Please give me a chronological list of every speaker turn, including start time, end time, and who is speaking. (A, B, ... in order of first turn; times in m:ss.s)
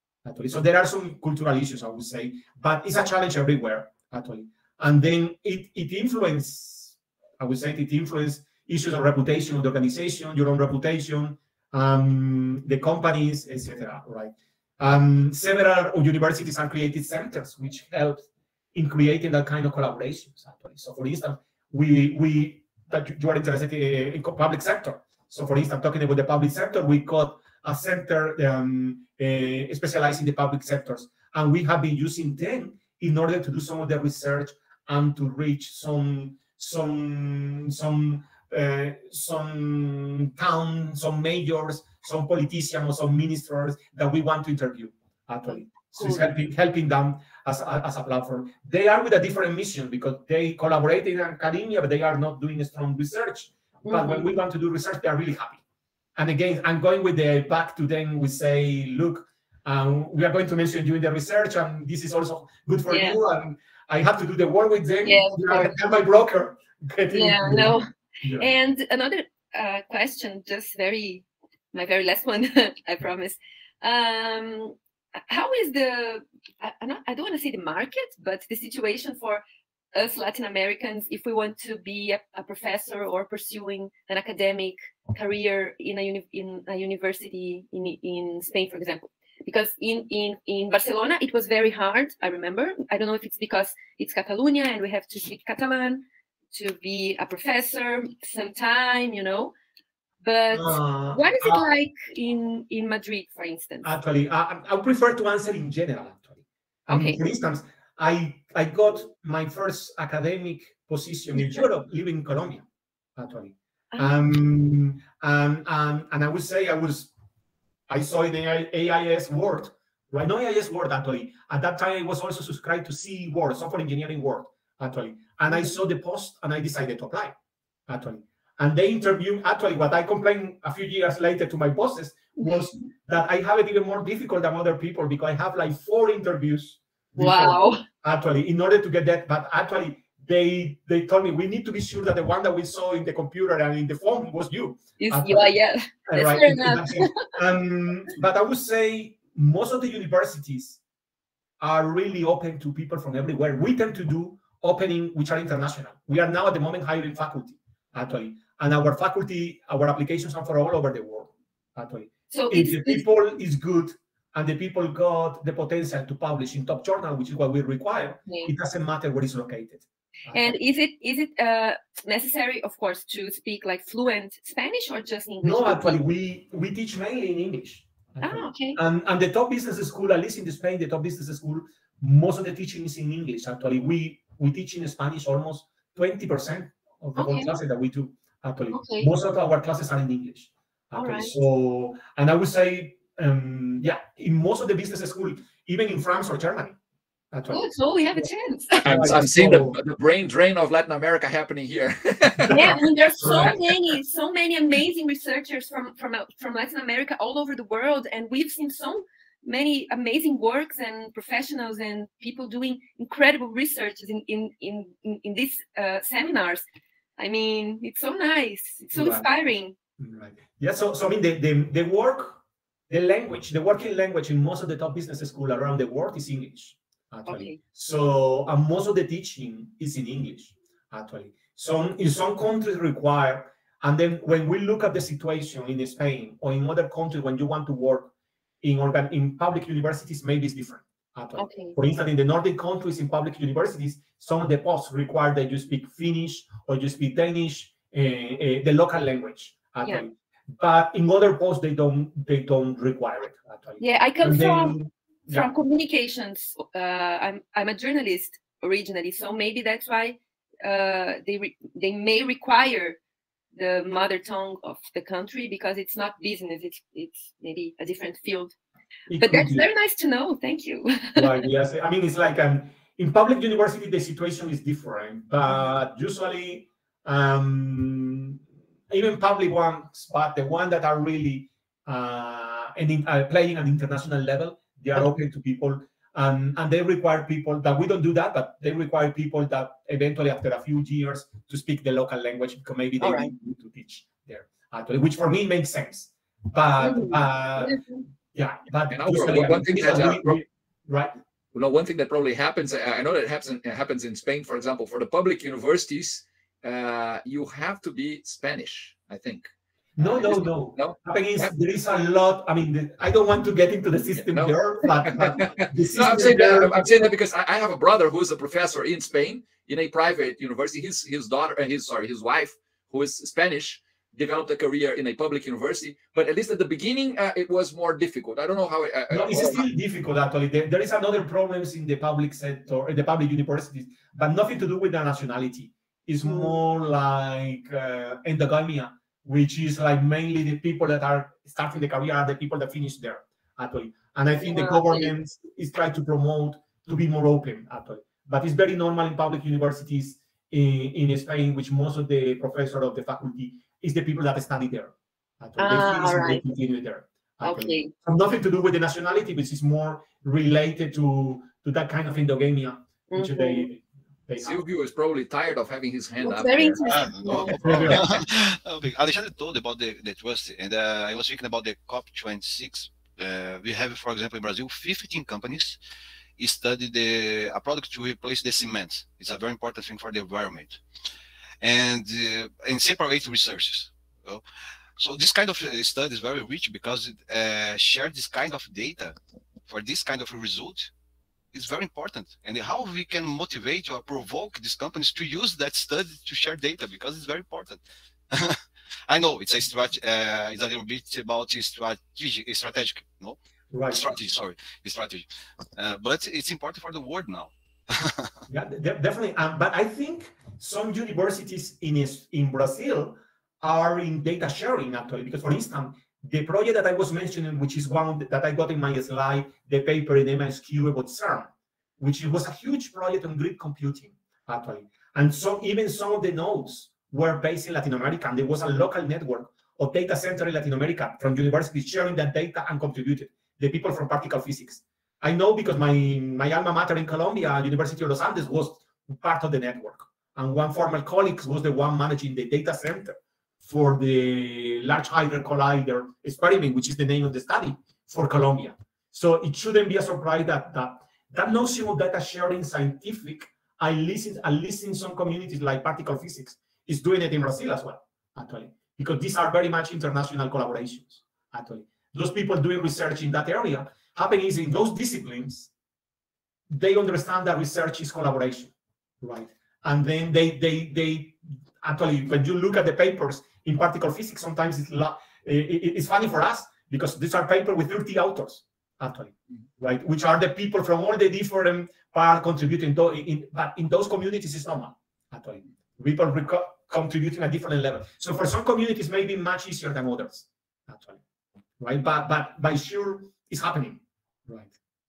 0:00.2-0:55.6 A
0:45.5-0:46.3 B
0:53.9-0:54.3 B
0:56.2-1:08.5 A
1:02.9-1:03.2 B
1:05.0-1:05.8 B
1:07.1-1:14.8 B
1:15.3-1:19.4 B
1:19.9-1:39.5 B
1:40.2-1:43.9 B
1:40.5-1:41.6 A
1:43.8-1:46.4 A
1:46.9-1:47.2 B
1:46.9-1:52.6 A
1:51.4-1:51.6 B
1:53.2-1:57.1 A
1:57.9-2:07.3 A
2:07.9-2:25.5 A
2:17.2-2:17.8 B
2:25.0-2:27.3 B
2:26.0-2:30.8 A
2:31.6-2:50.6 A
2:42.3-2:43.1 B
2:48.3-2:48.5 B
2:50.3-2:56.0 B
2:55.4-3:16.8 A
2:58.2-2:58.8 B
3:07.2-3:07.6 B
3:08.7-3:09.1 B
3:10.9-3:11.4 B
3:17.3-3:18.3 A
3:17.5-3:19.0 B
3:18.8-3:19.8 A
3:18.8-3:22.7 C
3:22.5-3:23.6 A
3:22.5-3:36.6 B
3:37.2-3:39.8 B
3:38.9-3:39.3 A
3:40.0-4:15.5 A
3:47.3-3:47.6 B
4:01.4-4:01.8 B
4:13.8-4:23.0 B
4:23.6-4:28.6 B
4:29.1-4:29.7 A
4:29.2-4:31.4 B
4:31.2-4:38.4 A
4:38.9-4:57.8 A
4:53.0-4:53.3 B
4:56.8-4:58.0 B
4:58.3-5:01.2 A
4:58.9-5:00.4 C
5:01.5-5:11.5 C
5:10.0-5:16.9 A
5:14.1-5:29.6 C
5:29.1-6:04.6 A
5:36.2-5:36.6 B
5:44.4-5:45.1 B
5:55.6-5:56.5 B
5:57.4-5:57.9 B
6:03.1-6:03.7 B
6:04.4-6:06.8 C
6:06.2-6:07.8 B
6:06.8-6:15.8 D
6:07.3-6:08.2 C
6:07.6-6:08.0 A
6:16.4-6:20.8 D
6:21.6-6:24.4 D
6:25.0-6:30.9 D
6:31.5-6:43.4 D
6:43.7-6:44.1 A
6:43.9-6:48.3 D
6:48.5-7:45.7 A
7:46.7-8:11.2 A
8:11.8-8:14.7 A